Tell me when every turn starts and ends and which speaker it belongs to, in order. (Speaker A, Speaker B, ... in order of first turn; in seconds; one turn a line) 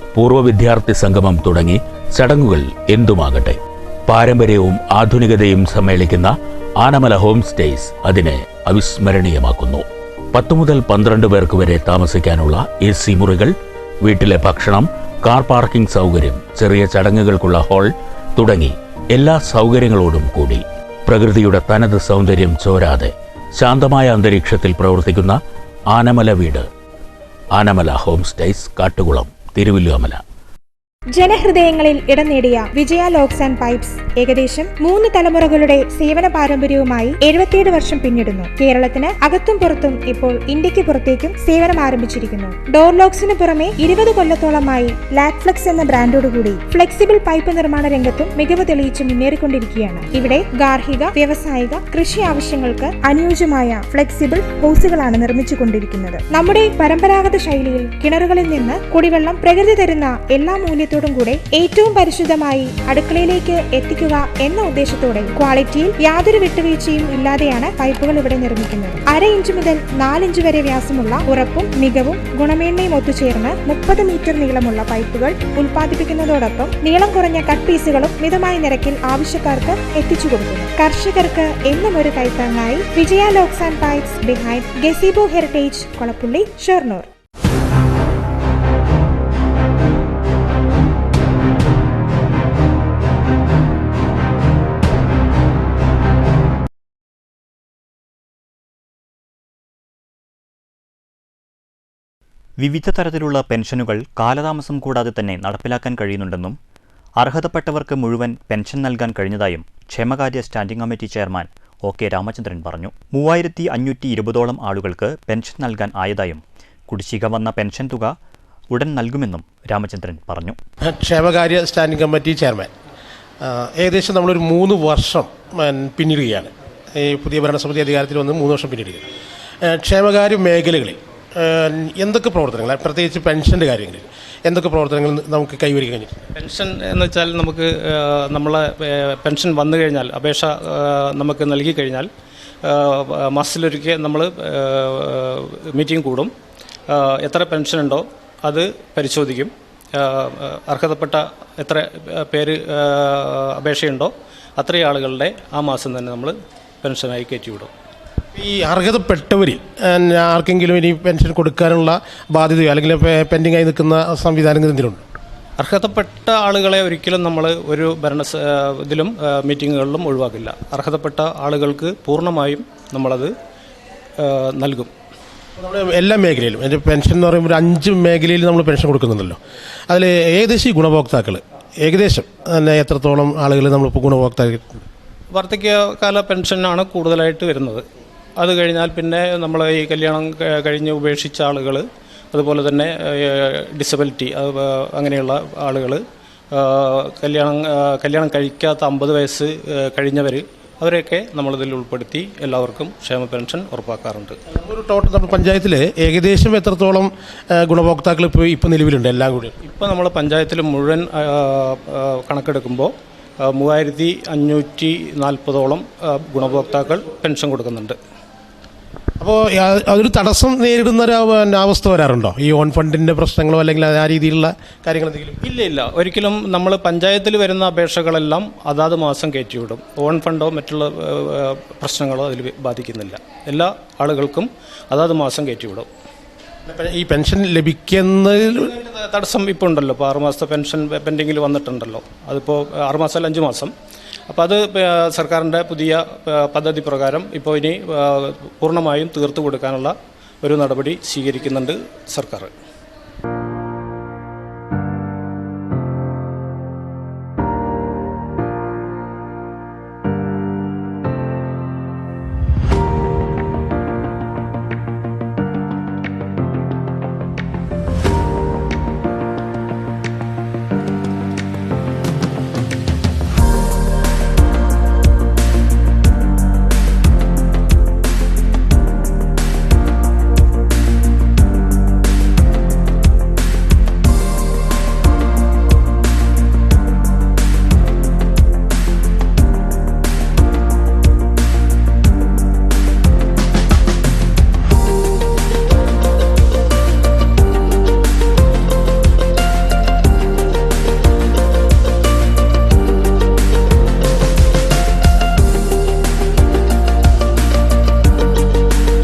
Speaker A: 0.1-25.4
Speaker A: 25.9-26.7
Speaker A: 27.6-30.2
Speaker B: 31.1-87.1
Speaker C: 102.6-106.6
Speaker C: 107.2-118.2
Speaker C: 118.7-120.6
Speaker D: 120.9-122.7
Speaker D: 123.4-129.1
Speaker D: 129.6-136.2
Speaker E: 136.4-142.1
Speaker E: 142.6-146.3
Speaker E: 146.9-157.7
Speaker D: 158.3-165.0
Speaker E: 165.6-173.3
Speaker E: 174.2-174.9
Speaker D: 175.6-184.9
Speaker E: 185.3-187.8
Speaker E: 188.4-204.4
Speaker D: 204.5-209.6
Speaker E: 209.6-218.0
Speaker D: 219.2-225.4
Speaker E: 225.4-235.9
Speaker D: 236.7-238.7
Speaker E: 238.6-243.7
Speaker E: 244.3-252.5